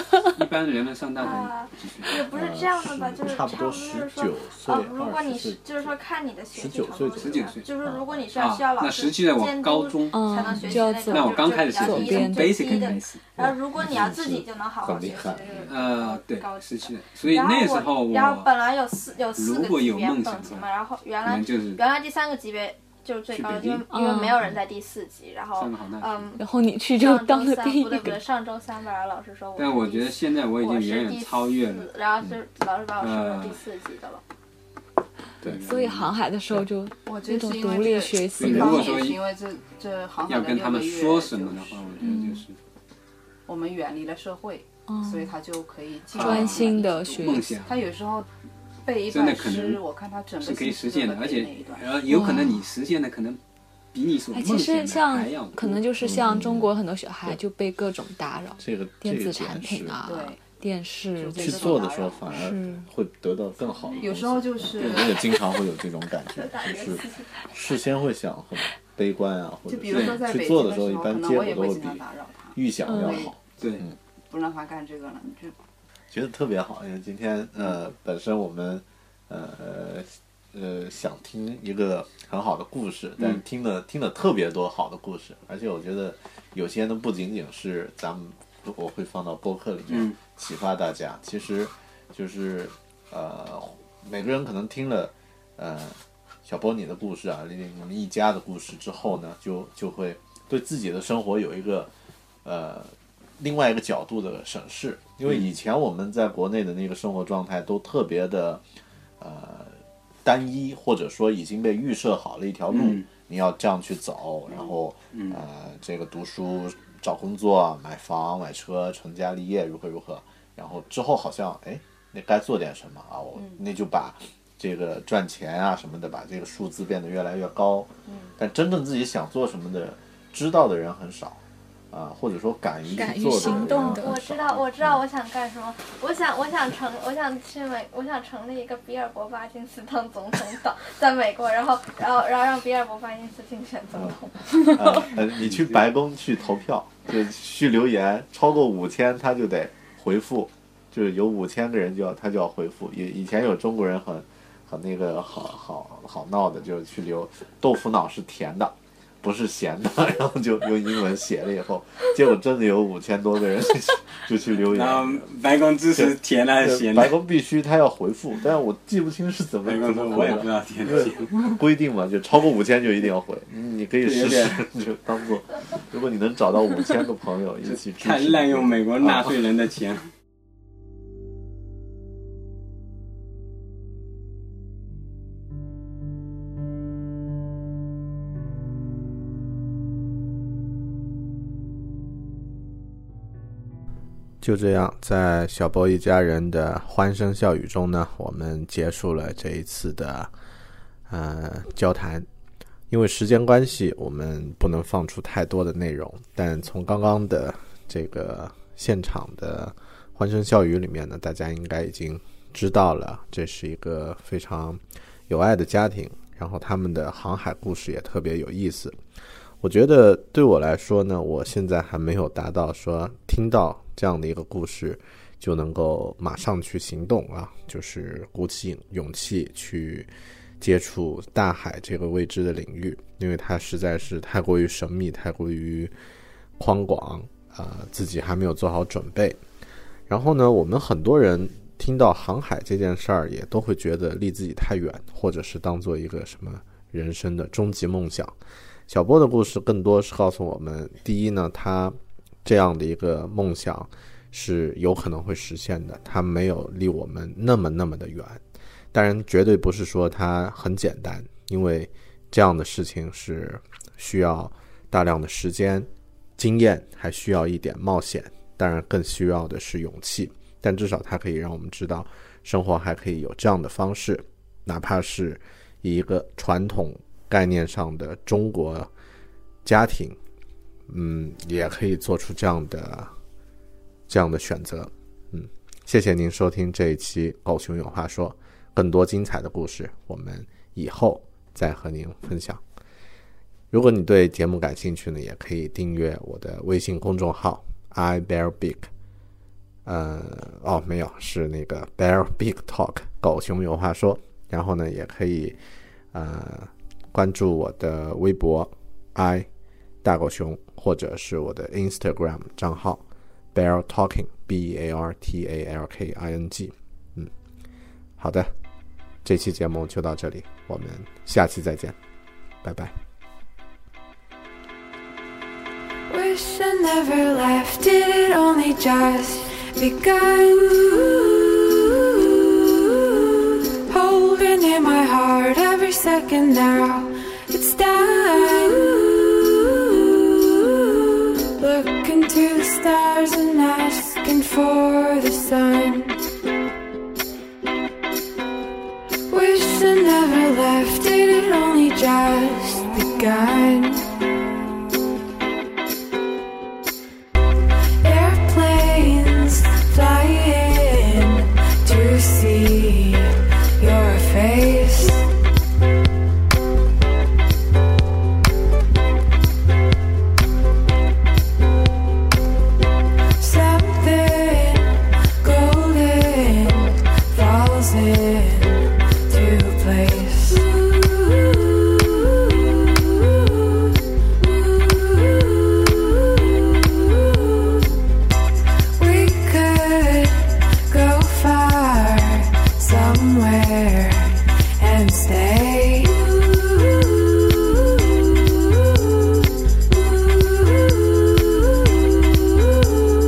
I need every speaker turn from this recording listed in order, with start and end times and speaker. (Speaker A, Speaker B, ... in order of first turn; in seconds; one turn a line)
Speaker A: 0.3-2.1
Speaker B: 1.2-34.2
Speaker C: 2.1-6.0
Speaker C: 6.5-8.3
Speaker A: 7.2-7.7
Speaker A: 8.3-13.3
Speaker D: 10.1-13.0
Speaker C: 13.3-15.7
Speaker A: 15.7-18.5
Speaker A: 19.3-20.7
Speaker A: 21.2-21.8
Speaker A: 23.3-23.8
Speaker D: 23.9-24.4
Speaker A: 25.6-26.3
Speaker D: 26.4-28.2
Speaker A: 29.6-31.9
Speaker A: 33.0-33.6
Speaker A: 35.4-36.1
Speaker D: 35.6-39.1
Speaker E: 37.1-42.2
Speaker A: 38.4-39.2
Speaker A: 40.3-42.6
Speaker D: 42.0-42.5
Speaker E: 43.5-48.3
Speaker D: 44.9-45.3
Speaker A: 46.1-47.8
Speaker D: 46.1-47.6
Speaker E: 48.8-52.1
Speaker A: 49.1-49.8
Speaker A: 50.4-53.4
Speaker D: 52.1-52.7
Speaker A: 53.9-55.9
Speaker D: 54.3-61.7
Speaker C: 56.0-56.7
Speaker C: 58.6-60.0
Speaker E: 60.0-60.4
Speaker E: 61.2-62.4
Speaker C: 61.4-72.0
Speaker D: 62.3-62.9
Speaker E: 64.0-65.3
Speaker A: 64.8-65.1
Speaker B: 66.4-67.3
Speaker E: 69.7-73.3
Speaker A: 69.9-70.2
Speaker C: 72.5-74.0
Speaker D: 72.9-73.3
Speaker E: 74.3-75.6
Speaker C: 76.1-101.9
Speaker A: 89.9-90.2
Speaker C: 102.5-108.6
Speaker C: 109.2-135.0
Speaker A: 112.7-113.1
Speaker A: 115.1-115.4
Speaker E: 123.3-123.6
Speaker E: 128.1-128.3
Speaker D: 132.9-134.3
Speaker B: 133.5-144.9
Speaker C: 143.9-165.3
Speaker A: 164.6-167.1
Speaker C: 165.9-179.4
Speaker A: 169.6-171.5
Speaker A: 174.0-174.6
Speaker A: 177.7-180.1
Speaker F: 194.4-200.3
Speaker F: 201.1-202.3
Speaker F: 202.9-219.0
Speaker F: 219.6-230.1
Speaker F: 230.6-235.9
Speaker F: 236.6-239.4
Speaker F: 240.1-248.3
Speaker F: 248.9-258.4
Speaker F: 258.9-278.9
Speaker F: 279.6-280.2
Speaker F: 280.9-283.1
Speaker F: 284.1-292.6
Speaker F: 293.7-298.9
Speaker F: 299.9-305.6
Speaker F: 306.1-309.5
Speaker F: 310.0-317.3
Speaker F: 318.2-318.5
Speaker F: 319.2-322.0
Speaker F: 322.6-322.9
Speaker G: 326.1-346.2
Speaker G: 349.3-354.1
Speaker G: 358.0-365.3
Speaker G: 373.4-382.3
Speaker G: 384.4-386.3
Speaker G: 386.8-387.9
Speaker G: 389.0-397.8
Speaker G: 399.9-401.9